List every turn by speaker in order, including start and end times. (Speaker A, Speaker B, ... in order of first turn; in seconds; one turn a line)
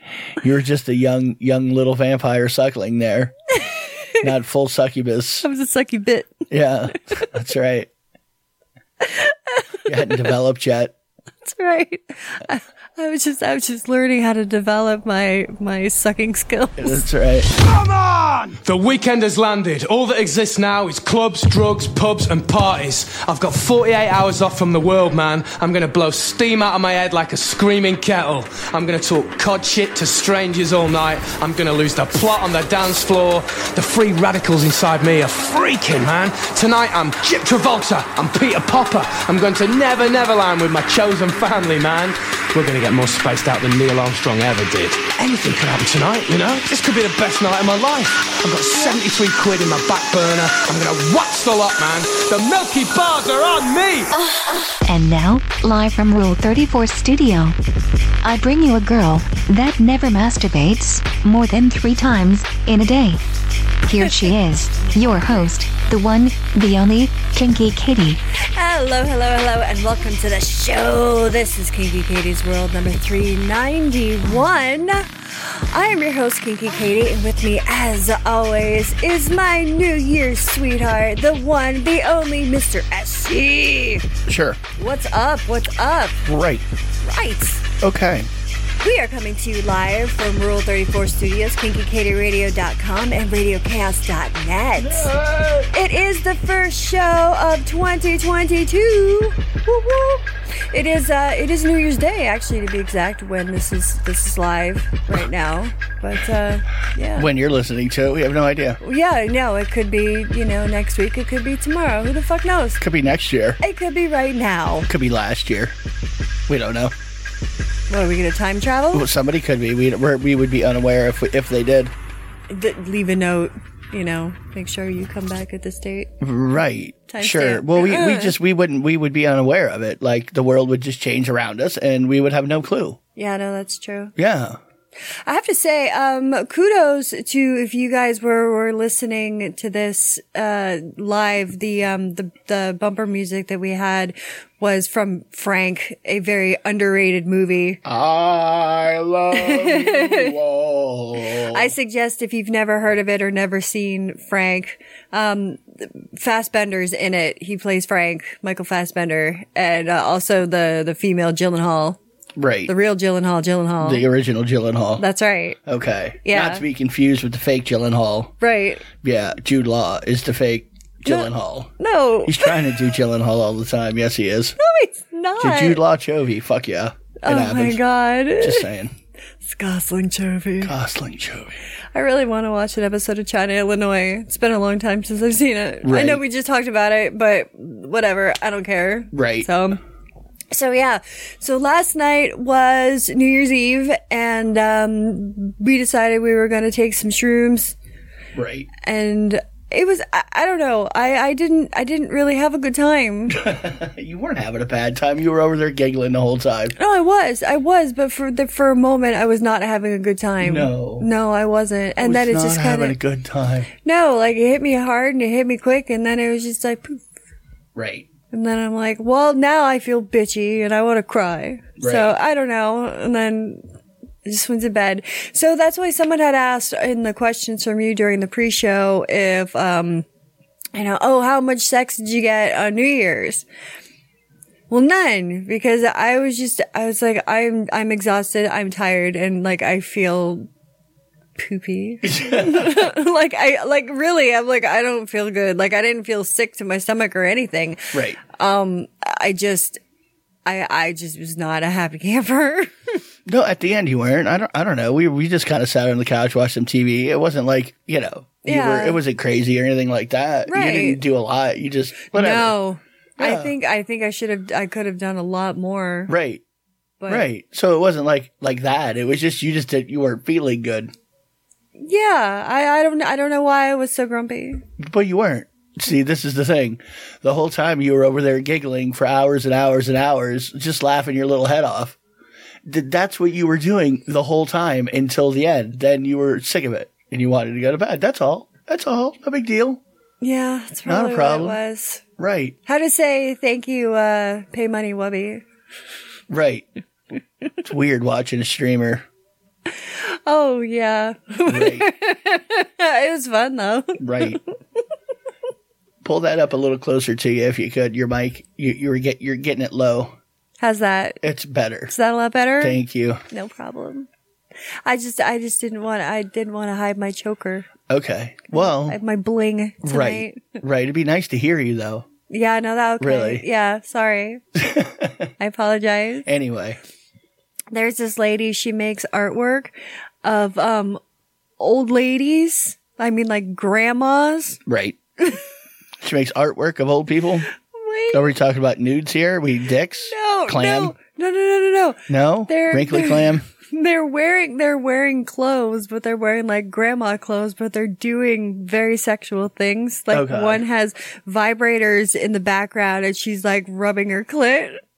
Speaker A: 0.4-3.3
Speaker B: 3.6-3.8
Speaker A: 4.2-5.5
Speaker B: 5.4-6.5
Speaker A: 6.5-7.9
Speaker B: 9.0-9.8
Speaker A: 9.8-10.9
Speaker B: 11.4-17.1
Speaker A: 16.8-17.5
Speaker C: 17.6-54.1
Speaker D: 54.8-57.6
Speaker D: 58.2-63.2
Speaker D: 63.8-68.2
Speaker B: 64.8-65.4
Speaker B: 68.5-84.1
Speaker A: 84.3-84.6
Speaker B: 84.8-86.2
Speaker A: 86.3-86.7
Speaker B: 87.0-87.6
Speaker A: 87.8-88.3
Speaker B: 88.8-95.1
Speaker A: 94.8-95.7
Speaker B: 95.7-107.3
Speaker A: 107.2-108.8
Speaker B: 108.8-112.8
Speaker A: 112.8-113.6
Speaker B: 113.6-114.9
Speaker A: 114.9-115.8
Speaker A: 116.5-116.9
Speaker B: 117.9-119.1
Speaker A: 118.9-121.9
Speaker B: 122.5-126.1
Speaker A: 126.2-133.0
Speaker B: 127.1-128.3
Speaker B: 133.2-134.1
Speaker A: 134.2-134.6
Speaker B: 135.2-147.8
Speaker A: 147.8-151.7
Speaker B: 149.3-150.4
Speaker B: 151.5-162.0
Speaker A: 162.4-162.7
Speaker B: 162.7-164.1
Speaker A: 163.8-165.1
Speaker B: 165.0-165.6
Speaker A: 165.7-168.3
Speaker B: 166.2-166.6
Speaker B: 168.4-168.9
Speaker A: 169.0-171.7
Speaker B: 171.1-172.8
Speaker A: 172.3-174.6
Speaker B: 174.6-175.8
Speaker A: 175.4-177.8
Speaker B: 177.2-178.7
Speaker A: 178.4-178.9
Speaker B: 179.4-180.7
Speaker A: 180.6-181.6
Speaker B: 181.9-189.8
Speaker A: 185.8-186.2
Speaker A: 189.1-189.5
Speaker B: 190.5-197.8
Speaker A: 198.4-198.7
Speaker B: 198.8-203.4
Speaker A: 203.3-206.8
Speaker B: 206.8-213.0
Speaker A: 210.4-211.1
Speaker A: 212.0-213.7
Speaker B: 213.8-217.0
Speaker A: 217.8-218.1
Speaker B: 218.3-223.6
Speaker A: 221.8-222.1
Speaker B: 224.2-230.1
Speaker B: 230.7-233.4
Speaker B: 234.7-240.5
Speaker B: 241.4-249.8
Speaker A: 242.1-242.8
Speaker A: 247.9-248.2
Speaker B: 250.5-253.0
Speaker A: 253.3-262.5
Speaker B: 258.4-259.0
Speaker B: 260.5-261.0
Speaker B: 262.1-266.1
Speaker A: 263.2-263.5
Speaker A: 266.1-266.4
Speaker B: 267.0-267.3
Speaker A: 267.1-270.9
Speaker B: 271.8-274.6
Speaker A: 274.8-282.0
Speaker A: 282.7-289.8
Speaker B: 290.2-292.0
Speaker A: 290.9-291.6
Speaker A: 292.2-292.6
Speaker B: 292.7-295.4
Speaker A: 296.3-296.7
Speaker A: 297.6-299.1
Speaker B: 300.0-304.4
Speaker A: 301.5-301.9
Speaker A: 304.0-304.4
Speaker A: 306.0-310.1
Speaker B: 310.6-311.2
Speaker A: 311.2-311.9
Speaker B: 311.9-314.1
Speaker A: 312.6-313.2
Speaker B: 314.9-317.7
Speaker A: 317.9-319.0
Speaker B: 318.5-320.6
Speaker A: 319.8-322.1
Speaker B: 322.3-324.4
Speaker A: 323.0-323.4
Speaker A: 324.6-325.3
Speaker B: 325.4-326.3
Speaker A: 326.3-326.8
Speaker B: 327.7-329.7
Speaker B: 330.2-331.0
Speaker B: 331.6-334.6
Speaker A: 334.7-335.0
Speaker A: 336.0-337.5
Speaker B: 337.7-338.3
Speaker A: 338.1-340.9
Speaker B: 340.1-354.8
Speaker A: 342.1-343.4
Speaker A: 350.1-350.6